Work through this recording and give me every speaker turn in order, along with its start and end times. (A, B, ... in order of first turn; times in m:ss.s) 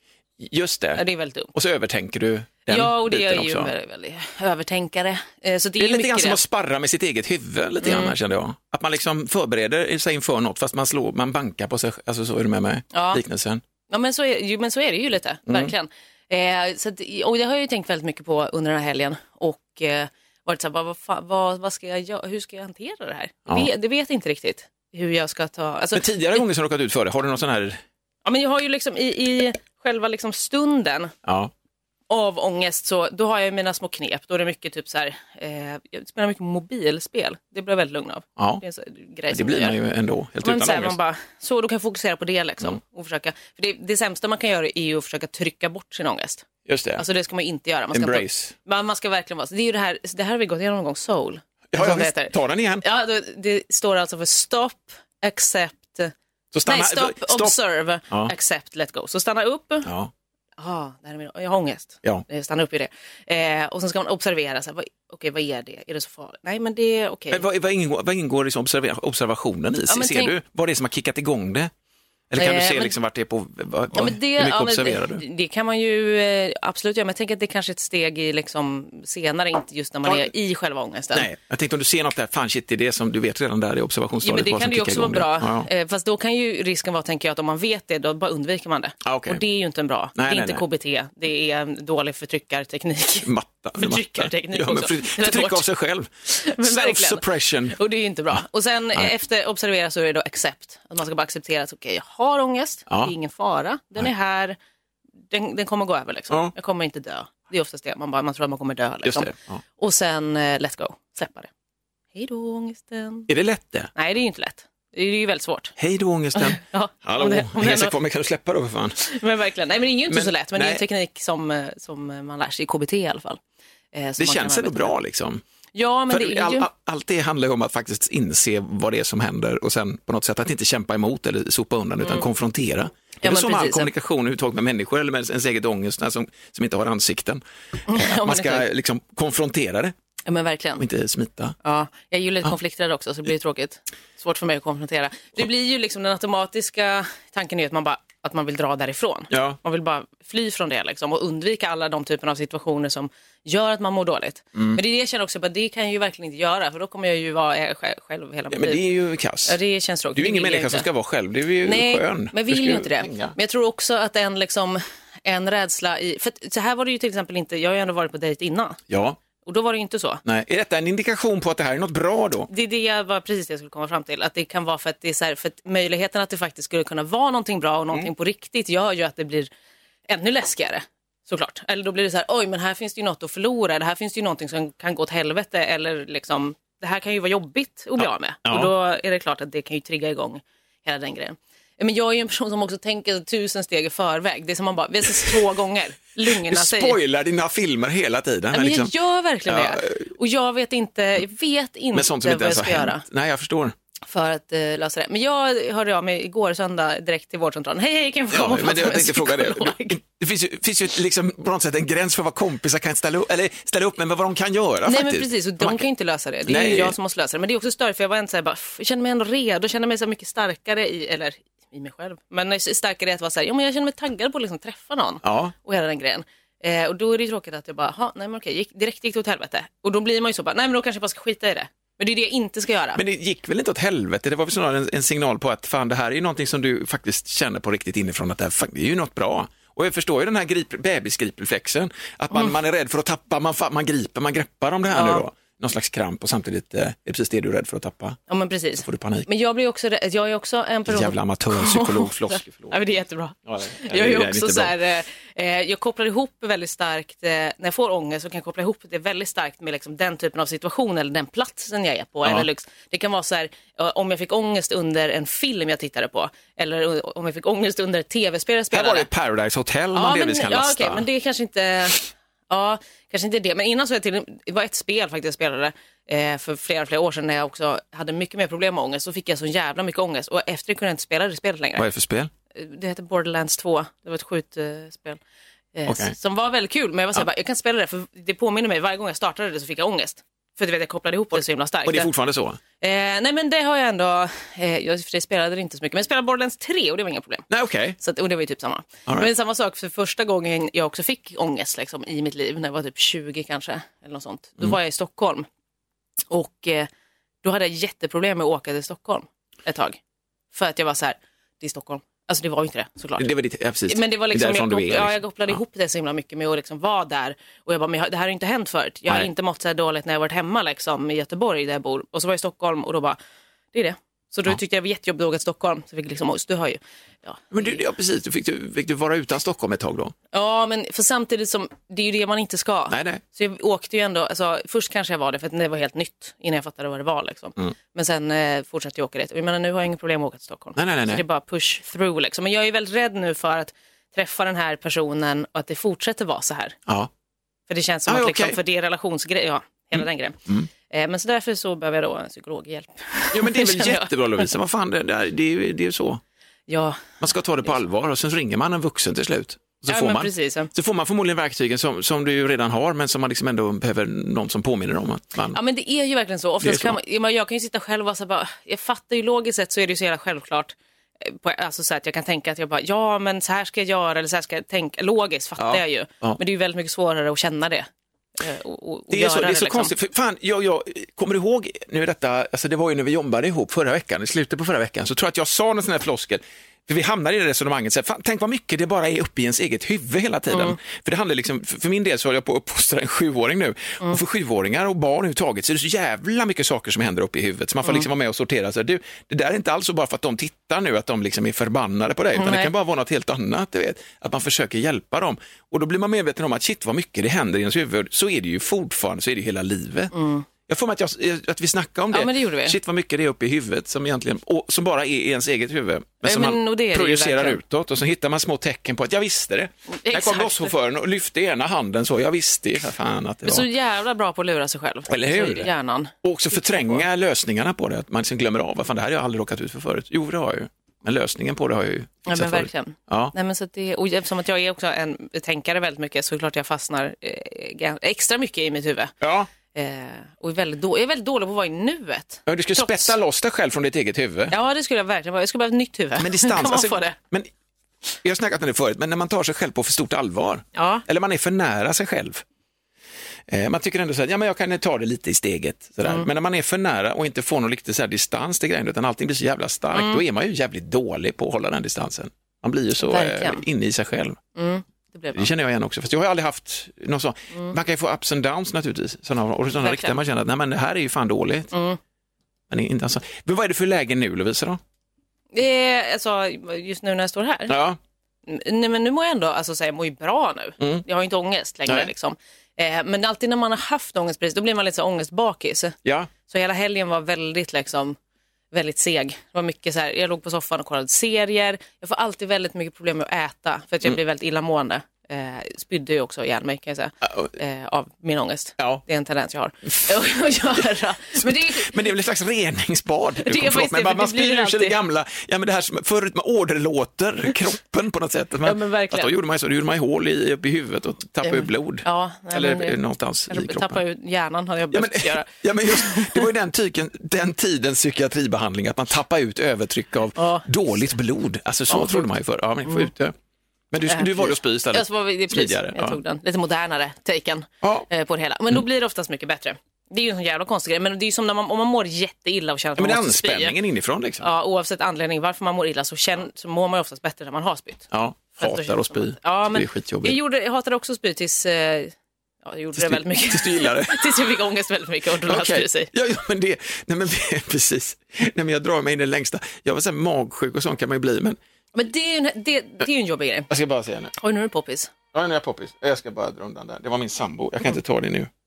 0:00.4-0:03.7 A
0:01.0-0:01.5 B
0:02.7-0:06.4 B
0:05.8-0:13.6 A
0:07.8-0:08.1 B
0:12.9-0:13.2 B
0:13.9-0:26.4 B
0:25.9-0:27.8 A
0:28.2-0:31.1 B
0:31.3-0:31.5 A
0:32.1-0:39.8 B
0:39.3-0:41.0 A
0:40.4-0:46.5 B
0:46.7-0:47.0 A
0:47.0-0:56.1 B
0:47.9-0:48.5 A
0:51.7-0:52.8 A
0:56.5-0:57.6 A
0:56.7-0:59.9 B
0:59.8-1:00.1 A
1:00.6-1:07.4 B
1:07.3-1:11.7 A
1:09.9-1:10.4 B
1:12.3-1:15.2 A
1:12.4-1:12.9 B
1:13.9-1:21.3 B
1:21.1-1:25.7 A
1:24.2-1:35.6 B
1:29.0-1:29.4 A
1:30.2-1:30.6 A
1:33.2-1:37.8 A
1:36.3-1:44.6 B
1:45.3-1:51.5 B
1:49.0-1:49.6 A
1:52.2-1:53.3 B
1:53.3-1:53.9 A
1:54.0-1:55.7 B
1:55.8-1:59.0 A
1:56.4-1:58.0 B
1:59.0-2:03.4 B
2:00.1-2:00.8 A
2:03.9-2:05.0 B
2:04.2-2:05.4 A
2:05.8-2:06.7 B
2:06.1-2:19.9 A
2:13.2-2:13.9 B
2:17.9-2:18.7 B
2:20.3-2:20.8 B
2:20.8-2:21.6 A
2:21.6-2:38.8 B
2:29.3-2:29.6 A
2:34.6-2:34.8 A
2:38.5-2:39.6 A
2:39.5-2:40.9 B
2:40.2-2:43.4 A
2:41.6-2:48.8 B
2:48.9-2:49.2 A
2:49.4-2:50.2 B
2:50.2-2:52.5 A
2:52.5-2:59.5 B
3:00.1-3:17.0 B
3:08.0-3:08.7 A
3:16.5-3:18.9 A
3:18.5-3:23.0 B
3:19.5-3:20.1 A
3:21.9-3:23.7 A
3:24.1-3:30.0 B
3:28.3-3:35.9 A
3:34.9-3:53.0 B
3:36.5-3:37.0 A
3:45.2-3:45.5 A
3:53.0-4:08.2 A
4:04.9-4:05.3 B
4:08.3-4:29.1 B
4:08.8-4:09.3 A
4:10.9-4:12.8 A
4:13.5-4:14.7 A
4:28.7-4:31.0 A
4:29.9-4:41.8 B
4:41.8-4:42.3 A
4:42.5-4:45.2 B
4:45.8-4:52.1 B
4:45.9-4:46.1 A
4:51.8-4:52.6 A
4:52.8-4:57.5 B
4:57.5-4:58.0 A
4:58.0-5:05.5 B
5:06.3-5:06.9 B
5:07.4-5:10.0 B
5:10.5-5:13.3 B
5:13.2-5:15.6 A
5:13.9-5:23.2 B
5:23.7-5:27.8 B
5:27.5-5:30.1 A
5:30.3-5:46.8 B
5:32.9-5:33.2 A
5:40.8-5:41.2 A
5:47.7-5:50.4 B
5:48.1-5:48.6 A
5:50.0-5:50.7 A
5:50.9-5:54.5 B
5:53.3-5:56.2 A
5:56.7-5:57.8 B
5:57.2-6:05.6 A
5:59.9-6:00.7 B
6:05.5-6:17.9 B
6:06.6-6:07.0 A
6:15.6-6:16.4 A
6:18.4-6:19.9 B
6:19.1-6:50.1 A
6:30.5-6:30.8 B
6:42.4-6:42.7 B
6:50.1-6:50.5 B
6:50.7-7:03.7 A
6:52.1-6:52.8 B
6:56.2-6:57.6 B
6:59.9-7:00.7 B
7:03.4-7:07.0 B
7:05.1-7:05.7 A
7:06.2-7:13.3 A
7:12.3-7:19.1 B
7:19.2-7:19.5 A
7:19.7-7:23.2 B
7:22.5-7:24.6 A
7:24.5-7:27.2 B
7:26.2-7:27.5 A
7:28.2-7:32.4 A
7:30.8-7:31.0 B
7:33.5-7:44.4 A
7:39.9-7:40.2 B
7:43.0-7:43.6 B
7:44.6-7:45.5 B
7:45.4-7:51.7 A
7:49.8-7:50.2 B
7:51.7-7:52.0 B
7:52.7-7:54.8 A
7:55.5-7:57.8 B
7:57.7-7:58.0 A
7:58.5-8:08.2 B
8:06.0-8:06.3 A
8:08.7-8:22.0 B
8:17.2-8:17.5 A
8:21.4-8:34.0 A
8:23.4-8:25.0 B
8:28.6-8:29.3 B
8:31.4-8:33.0 B
8:33.5-8:36.5 B
8:34.9-8:43.3 A
8:40.4-8:40.7 B
8:41.9-8:42.3 B
8:43.9-8:46.2 A
8:44.1-8:53.8 B
8:47.8-8:48.1 A
8:53.0-8:54.5 A
8:54.4-9:06.1 B
8:58.1-9:00.4 A
9:03.0-9:04.5 A
9:05.5-9:11.6 A
9:12.0-9:13.7 B
9:13.7-9:14.3 A
9:14.4-9:15.1 B
9:15.3-9:18.5 A